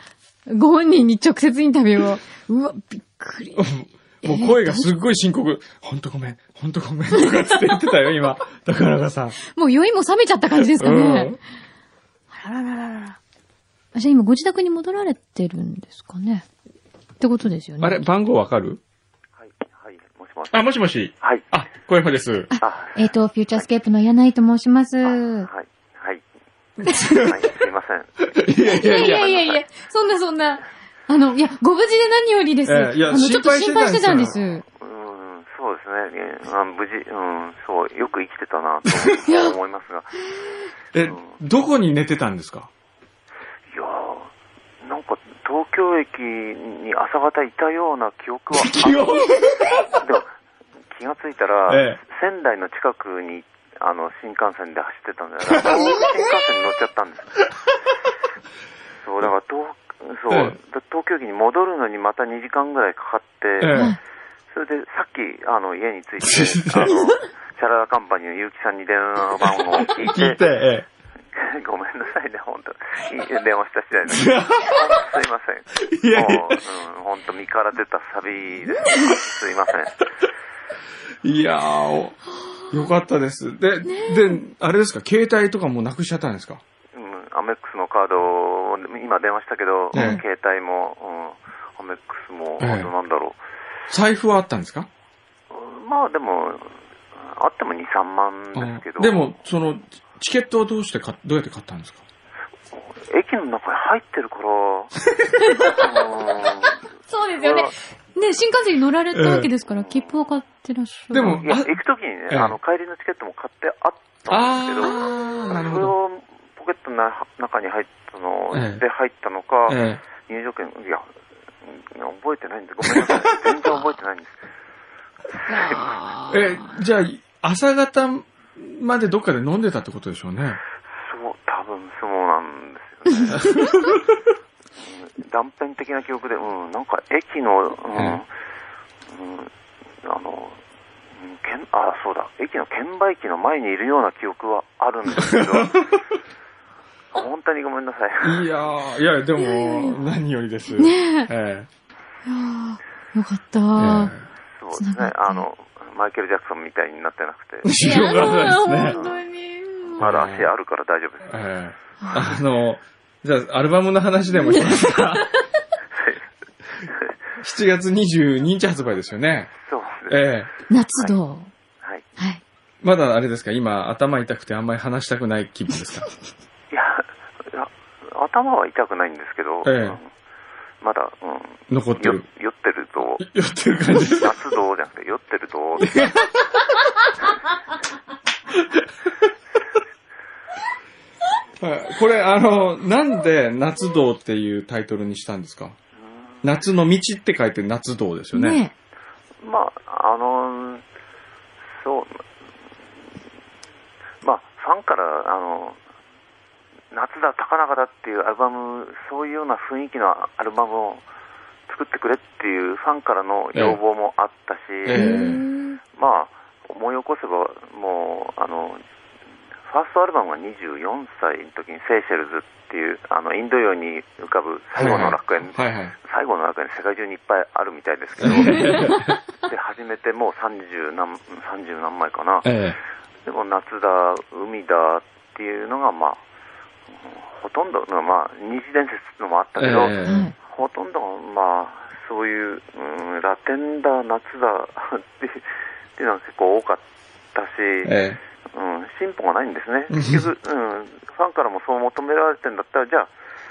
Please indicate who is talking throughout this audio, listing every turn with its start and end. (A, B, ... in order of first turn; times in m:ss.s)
0:00.5-0:03.7 A
0:03.6-0:09.4 B
0:04.2-0:04.9 A
0:09.4-0:11.4 A
0:10.6-0:11.4 B
0:12.3-0:13.2 A
0:13.9-0:16.4 A
0:17.2-0:18.0 A
0:17.8-0:18.8 B
0:19.4-0:20.7 C
0:20.5-0:22.5 B
0:21.2-0:21.5 C
0:22.5-0:25.5 A
0:22.6-0:23.0 C
0:25.0-0:26.2 C
0:26.8-0:27.5 B
0:27.1-0:29.6 C
0:28.3-0:29.3 B
0:28.6-0:34.6 A
0:32.7-0:34.4 B
0:34.8-0:40.3 C
0:38.9-0:39.2 B
0:39.2-0:39.6 A
0:40.9-0:42.7 B
0:41.0-0:41.4 C
0:43.7-0:44.3 C
0:44.8-0:49.2 C
0:48.5-0:50.0 B
0:50.0-0:50.3 C
0:50.9-0:57.4 C
0:51.7-0:52.0 B
0:55.5-0:56.2 B
0:59.0-1:03.9 C
1:00.3-1:00.6 B
1:03.6-1:04.0 B
1:03.7-1:04.0 A
1:04.5-1:10.4 C
1:06.2-1:07.2 B
1:09.7-1:10.9 B
1:11.4-1:20.1 C
1:14.1-1:15.0 B
1:15.8-1:16.7 B
1:21.2-1:22.2 B
1:22.7-1:26.6 B
1:23.9-1:24.4 A
1:26.9-1:33.4 C
1:29.9-1:30.2 B
1:29.9-1:30.2 A
1:32.6-1:32.9 B
1:33.9-1:34.9 B
1:35.5-1:39.3 C
1:38.6-1:42.0 B
1:42.7-1:44.9 C
1:45.4-1:45.9 A
1:45.6-1:46.9 C
1:47.1-1:51.4 A
1:47.4-1:47.7 C
1:49.1-1:49.5 B
1:49.8-1:50.2 C
1:51.1-1:51.8 B
1:51.4-2:01.1 C
1:52.3-1:52.6 B
1:54.3-1:55.9 B
1:54.8-1:55.5 A
1:58.5-1:58.8 B
1:59.7-2:00.0 B
2:01.6-2:04.4 C
2:02.8-2:03.4 B
2:05.5-2:06.7 A
2:06.3-2:10.6 B
2:11.0-2:13.6 C
2:13.4-2:14.0 B
2:14.8-2:18.3 C
2:18.0-2:18.2 B
2:19.1-2:20.6 C
2:21.2-2:25.9 C
2:25.2-2:25.8 B
2:27.1-2:28.5 C
2:28.2-2:31.7 B
2:29.4-2:30.0 A
2:30.8-2:31.3 A
2:32.3-2:34.2 A
2:33.8-2:34.2 B
2:34.6-2:37.9 C
2:34.8-2:35.4 A
2:37.6-2:39.0 B
2:37.8-2:40.0 A
2:38.9-2:39.2 C
2:40.0-2:41.5 C
2:40.0-2:40.5 B
2:41.3-2:45.3 B
2:42.0-2:42.4 A
2:44.3-2:45.4 A
2:46.0-2:46.2 C
2:46.9-2:47.1 C
2:47.4-2:49.5 B
2:49.6-2:50.2 C
2:50.1-2:50.5 B
2:50.7-2:51.5 A
2:52.2-2:52.4 A
2:52.8-2:56.1 B
2:56.7-3:00.1 C
2:59.6-3:00.0 B
3:00.8-3:03.2 C
3:01.7-3:02.2 B
3:03.2-3:04.4 B
3:04.1-3:06.1 C
3:05.8-3:06.6 B
3:08.5-3:08.9 B
3:11.6-3:15.8 B
3:16.4-3:18.6 B
3:18.3-3:18.7 A
3:19.4-3:20.8 C
3:21.7-3:22.2 C
3:24.2-3:25.8 C
3:26.9-3:31.0 C
3:31.7-3:35.3 C
3:33.5-3:33.8 B
3:34.8-3:35.4 B
3:34.9-3:35.8 A
3:35.9-3:38.8 C
3:39.7-3:52.5 C
3:44.8-3:45.9 B
3:48.2-3:49.2 B
3:48.3-3:49.0 A
3:52.4-3:52.8 B
3:53.2-3:56.2 C
3:56.9-4:07.9 C
3:59.6-4:00.3 B
4:00.0-4:00.3 A
4:07.8-4:08.2 B
4:08.5-4:13.1 C
4:09.9-4:10.3 B